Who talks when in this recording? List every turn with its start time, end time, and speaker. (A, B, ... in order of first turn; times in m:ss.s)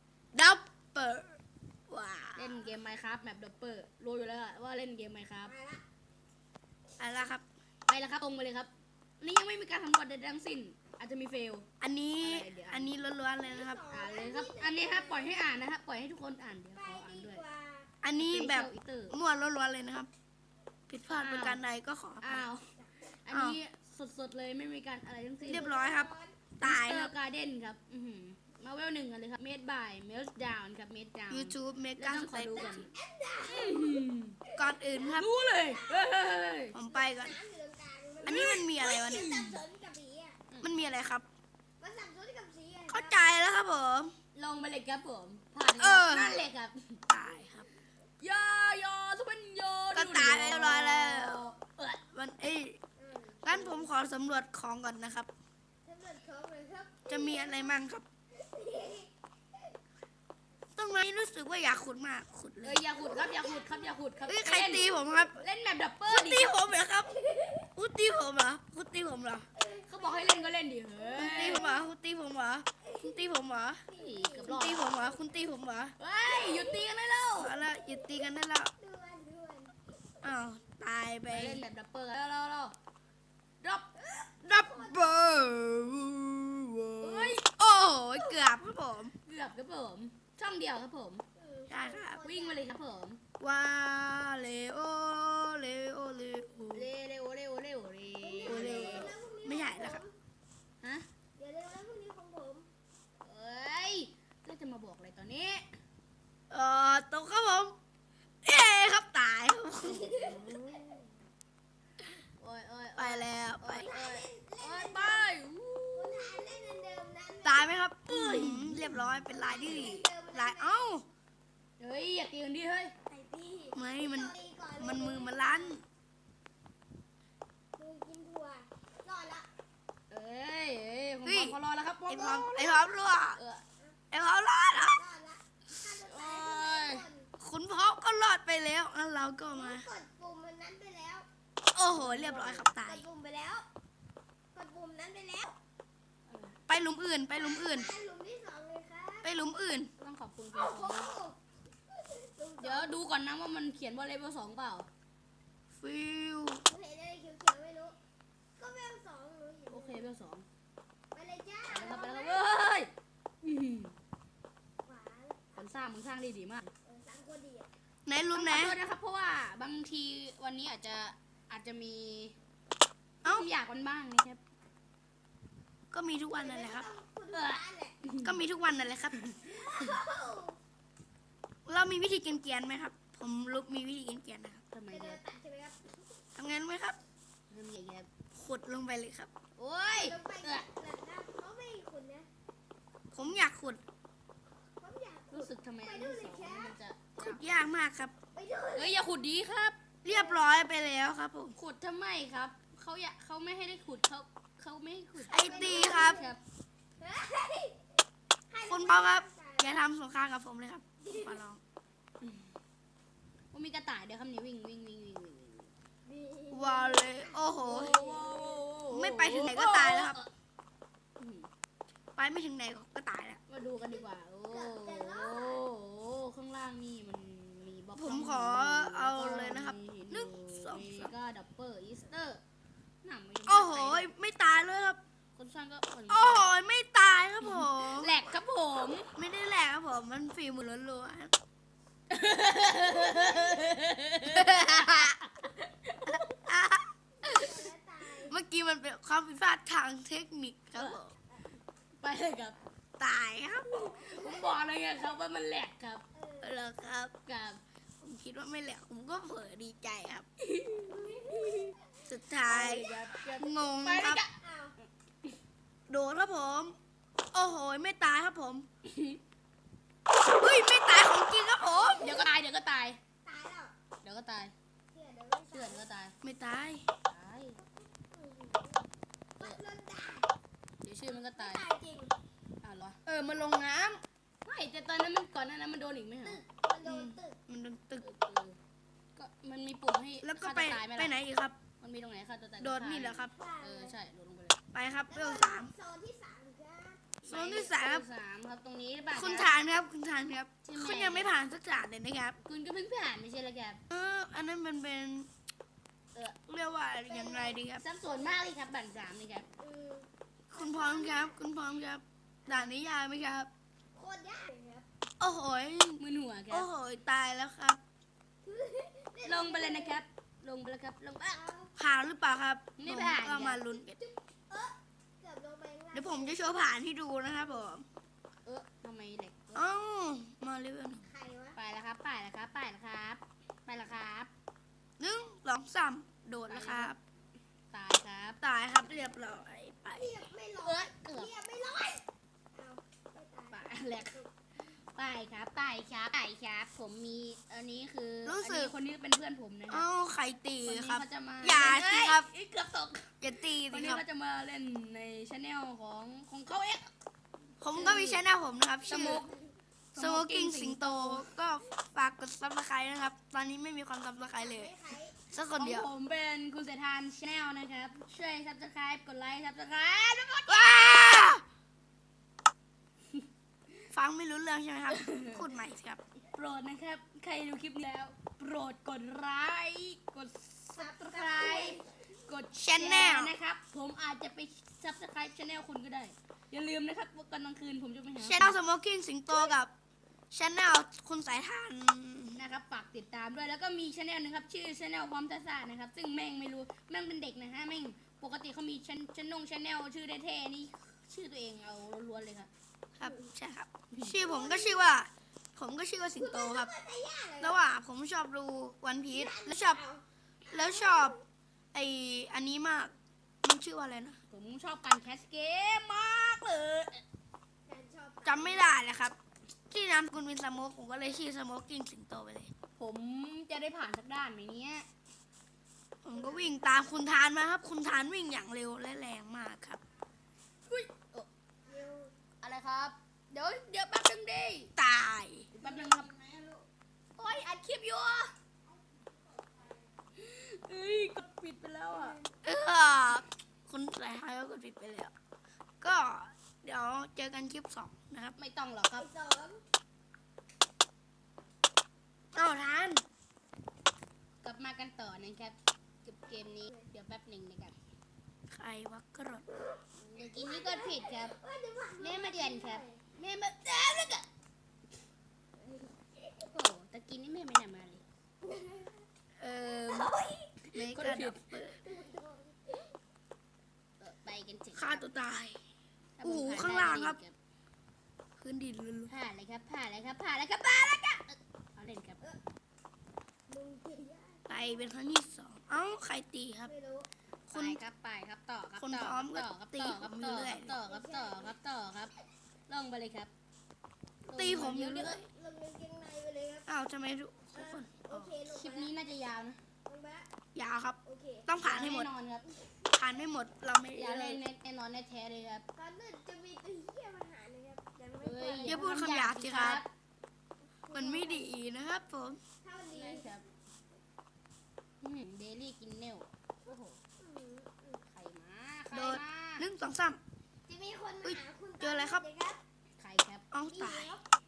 0:00.3-0:01.4 A
0:01.9-0:02.5 A
0:02.3-0:05.5 B
0:05.4-0:05.8 C
0:07.0-0:07.4 A
0:07.9-0:11.6 B
0:11.8-0:13.8 A
0:12.2-0:12.9 B
0:13.4-0:15.4 C
0:13.9-0:17.4 B
0:16.7-0:17.9 C
0:18.0-0:20.1 A
0:18.1-0:19.2 B
0:20.9-0:22.5 A
0:21.1-0:21.6 B
0:22.2-0:22.7 B
0:23.2-0:25.7 B
0:23.3-0:23.6 A
0:25.4-0:26.4 C
0:25.5-0:27.1 A
0:26.6-0:32.9 B
0:31.3-0:32.8 A
0:32.5-0:36.3 C
0:33.4-0:34.4 B
0:34.6-0:35.3 A
0:35.1-0:36.7 B
0:36.7-0:37.3 A
0:36.9-0:40.4 C
0:38.2-0:39.3 A
0:39.1-0:39.6 B
0:40.6-0:41.3 A
0:41.8-0:43.1 C
0:42.9-0:44.1 A
0:44.3-0:47.0 B
0:45.8-0:46.4 A
0:47.1-0:47.7 A
0:48.2-0:52.0 B
0:49.9-0:51.4 A
0:52.1-0:52.8 A
0:53.0-0:53.9 C
0:53.4-0:55.3 A
0:55.8-0:57.8 C
0:57.1-0:58.0 A
0:58.3-0:59.1 C
1:00.8-1:02.8 A
1:02.6-1:06.5 B
1:02.9-1:05.3 C
1:04.3-1:05.4 A
1:06.1-1:07.1 A
1:07.2-1:07.7 C
1:07.7-1:09.5 A
1:09.6-1:11.9 C
1:09.9-1:11.7 B
1:11.2-1:13.8 A
1:12.8-1:13.3 C
1:13.9-1:15.2 C
1:13.9-1:14.9 B
1:14.4-1:15.9 A
1:16.0-1:17.6 B
1:16.2-1:16.9 C
1:17.4-1:18.7 A
1:18.8-1:19.9 C
1:20.2-1:21.6 A
1:21.3-1:22.7 B
1:23.6-1:23.9 B
1:24.0-1:25.4 C
1:24.4-1:29.1 A
1:27.0-1:27.4 B
1:28.2-1:28.6 C
1:29.2-1:31.2 B
1:31.4-1:32.7 C
1:31.7-1:32.2 A
1:32.2-1:33.2 B
1:33.4-1:36.9 A
1:36.7-1:39.1 B
1:38.2-1:40.1 C
1:38.4-1:40.0 A
1:41.4-1:42.7 C
1:43.2-1:45.7 B
1:46.5-1:47.8 A
1:48.4-1:51.0 A
1:49.8-1:50.8 C
1:52.4-1:56.4 B
1:53.0-1:53.9 A
1:53.8-1:55.3 C
1:55.9-1:57.7 C
1:57.4-2:01.0 A
1:58.1-1:59.0 B
1:59.3-2:00.9 C
2:01.8-2:02.9 B
2:03.1-2:05.8 C
2:03.7-2:05.8 A
2:07.8-2:09.5 C
2:10.1-2:12.6 B
2:11.2-2:13.4 A
2:12.5-2:13.0 C
2:13.4-2:13.6 B
2:14.1-2:15.0 A
2:14.9-2:17.3 C
2:16.0-2:17.0 B
2:17.4-2:19.9 A
2:19.5-2:21.2 C
2:21.7-2:23.0 A
2:21.9-2:22.7 B
2:22.7-2:23.6 C
2:24.5-2:25.6 C
2:26.3-2:26.6 B
2:26.7-2:27.9 A
2:27.3-2:29.3 C
2:29.2-2:29.9 A
2:30.0-2:31.1 B
2:30.5-2:31.4 C
2:31.9-2:32.9 C
2:32.6-2:34.9 B
2:35.7-2:36.6 A
2:36.7-2:38.0 C
2:38.6-2:40.1 C
2:39.7-2:40.4 B
2:41.1-2:42.4 C
2:41.7-2:42.9 B
2:43.4-2:43.9 B
2:44.8-2:45.7 C
2:45.6-2:46.7 B
2:46.8-2:47.7 C
2:48.0-2:48.8 A
2:48.3-2:52.3 B
2:53.2-2:54.4 B
2:55.9-2:56.9 A
2:56.4-2:58.0 C
2:57.3-2:58.4 B
2:58.2-2:59.2 A
2:59.4-3:00.6 C
3:01.7-3:04.6 A
3:04.7-3:05.2 B
3:04.9-3:05.9 C
3:06.4-3:07.0 A
3:07.5-3:08.1 B
3:08.3-3:09.3 A
3:09.6-3:10.6 B
3:09.9-3:12.3 C
3:13.1-3:13.8 A
3:14.8-3:16.8 C
3:15.3-3:17.4 B
3:17.2-3:18.1 A
3:18.3-3:19.0 C
3:18.8-3:19.8 B
3:20.0-3:20.5 C
3:20.0-3:21.6 A
3:21.5-3:26.4 B
3:25.2-3:26.2 A
3:25.3-3:26.3 C
3:27.0-3:27.9 C
3:28.5-3:29.8 C
3:28.7-3:31.6 A
3:31.0-3:31.4 C
3:32.2-3:32.5 B
3:33.5-3:35.7 B
3:36.0-3:38.6 C
3:36.5-3:38.0 A
3:37.6-3:40.3 B
3:38.9-3:40.2 A
3:41.2-3:41.5 B
3:42.2-3:43.4 A
3:43.5-3:52.4 B
3:43.6-3:45.6 C
3:47.9-3:51.1 A
3:53.0-3:54.0 B
3:53.5-3:55.0 A
3:55.3-3:56.5 B
3:56.1-3:58.1 A
3:57.4-3:59.1 B
3:59.2-4:01.3 A
4:02.1-4:06.4 B
4:04.3-4:05.1 A
4:06.1-4:07.4 A
4:07.2-4:08.4 C
4:08.2-4:11.1 A
4:12.0-4:12.6 B
4:13.0-4:14.0 A
4:13.9-4:14.5 C
4:14.0-4:16.0 B
4:16.1-4:16.6 C
4:16.4-4:17.1 A
4:17.2-4:17.6 B
4:18.0-4:20.2 A
4:20.4-4:21.7 B
4:20.9-4:21.7 C
4:22.1-4:24.2 A
4:22.4-4:25.3 B
4:24.3-4:24.7 C
4:25.9-4:26.8 A
4:27.3-4:28.7 A
4:28.8-4:29.2 B
4:30.3-4:32.2 A
4:31.6-4:32.3 C
4:32.0-4:33.0 B
4:33.2-4:33.7 C
4:34.0-4:34.5 B
4:34.9-4:35.8 C
4:35.5-4:36.1 B
4:36.2-4:36.8 A
4:37.1-4:37.6 B
4:37.6-4:38.8 C
4:39.4-4:40.3 C
4:40.8-4:41.6 B
4:41.1-4:42.1 C
4:42.6-4:43.0 B
4:43.0-4:44.0 A
4:44.4-4:46.4 B
4:46.2-4:47.4 C
4:46.8-4:48.0 A
4:48.0-4:48.6 B
4:49.2-4:51.2 B
4:50.2-4:51.6 A
4:51.8-4:54.6 B
4:52.6-4:53.3 A
4:53.3-4:54.0 C
4:54.7-4:55.7 A
4:55.1-4:57.2 C
4:57.2-4:59.5 B
4:57.2-4:58.0 A
4:59.1-5:02.4 A
5:00.6-5:01.4 B
5:02.4-5:03.8 B
5:03.9-5:05.3 A
5:06.5-5:07.8 A
5:07.0-5:08.4 C
5:07.8-5:09.5 B
5:09.6-5:11.4 C
5:10.5-5:13.5 A
5:13.9-5:14.8 C
5:15.2-5:17.8 A
5:16.0-5:16.7 B
5:18.4-5:20.0 C
5:19.2-5:21.5 B
5:21.3-5:21.7 C
5:21.8-5:24.0 A
5:22.8-5:23.6 B
5:23.6-5:26.6 C
5:25.9-5:27.8 A
5:28.4-5:29.6 B
5:29.5-5:31.0 A
5:31.0-5:31.6 C
5:31.5-5:34.3 B
5:35.0-5:37.0 A
5:36.5-5:36.9 B
5:37.7-5:38.4 B
5:38.4-5:40.1 A
5:39.9-5:44.3 C
5:40.6-5:41.3 B
5:43.5-5:44.2 B
5:44.9-5:49.9 B
5:48.2-5:48.7 A
5:49.7-5:52.3 A
5:50.6-5:56.9 B
5:53.2-5:54.0 A
5:57.6-5:59.2 A
5:57.7-5:58.2 B
5:58.8-5:59.4 B
5:59.9-6:01.3 B
6:00.0-6:04.7 A
6:04.3-6:05.2 C
6:05.3-6:05.9 A
6:05.5-6:11.3 B
6:10.5-6:11.4 A
6:13.9-6:16.0 A
6:14.9-6:15.5 B
6:16.3-6:28.6 B
6:20.8-6:21.8 C
6:22.6-6:23.3 A
6:28.2-6:29.7 A
6:30.3-6:32.4 A
6:32.3-6:42.5 B
6:43.0-6:46.7 A
6:43.0-6:43.3 C
6:44.1-6:44.9 C
6:46.2-6:47.6 C
6:47.4-6:49.8 A
6:49.1-6:51.2 C
6:50.5-6:51.2 A
6:51.7-6:54.2 A
6:54.3-6:57.0 B
6:57.7-6:58.8 C
6:58.2-6:59.2 A
6:59.7-7:02.5 A
7:02.8-7:04.9 B
7:06.0-7:09.8 A
7:06.1-7:06.6 C
7:10.7-7:11.3 B
7:11.6-7:12.1 C
7:12.4-7:14.7 B
7:14.8-7:15.5 A
7:15.5-7:16.1 B
7:15.6-7:16.6 C
7:17.2-7:18.3 B
7:20.2-7:22.2 B
7:21.9-7:22.2 C
7:22.4-7:25.1 A
7:25.8-7:28.3 A
7:28.4-7:29.1 B
7:29.0-7:29.6 C
7:32.3-7:33.0 A
7:34.4-7:37.8 B
7:36.3-7:36.9 C
7:38.5-7:39.4 A
7:40.0-7:41.3 B
7:40.2-7:43.0 C
7:42.0-7:44.3 B
7:45.6-7:46.5 C
7:46.5-7:48.0 B
7:48.4-7:49.0 C
7:49.4-7:50.1 A
7:49.6-7:50.5 C
7:50.7-7:51.5 B
7:50.7-7:51.8 A
7:51.8-7:52.9 C
7:54.0-7:55.0 B
7:54.7-7:55.6 A
7:56.2-7:57.3 B
7:56.2-7:57.2 A
7:58.4-7:59.1 A
7:59.1-8:02.2 B
8:03.5-8:04.9 C
8:04.5-8:06.7 A
8:06.6-8:07.1 C
8:07.5-8:07.8 A
8:07.5-8:12.1 B
8:08.8-8:10.8 A
8:10.4-8:11.6 C
8:12.7-8:13.3 B
8:14.2-8:15.2 A
8:14.3-8:15.2 B
8:15.0-8:16.7 C
8:16.7-8:18.3 A
8:17.5-8:18.9 C
8:18.5-8:19.6 B
8:19.8-8:20.3 C
8:20.5-8:22.1 A
8:21.0-8:21.5 C
8:21.6-8:22.4 B
8:22.9-8:24.4 A
8:23.9-8:25.6 B
8:25.8-8:28.8 C
8:28.2-8:29.9 B
8:28.6-8:29.8 A
8:30.8-8:31.5 C
8:30.9-8:32.4 A
8:32.6-8:33.3 C
8:32.9-8:33.4 B
8:35.0-8:37.0 B
8:37.2-8:38.0 C
8:38.1-8:39.6 B
8:38.9-8:40.2 A
8:40.7-8:42.6 C
8:41.2-8:42.2 A
8:43.0-8:43.4 B
8:43.5-8:44.1 A
8:43.7-8:44.2 C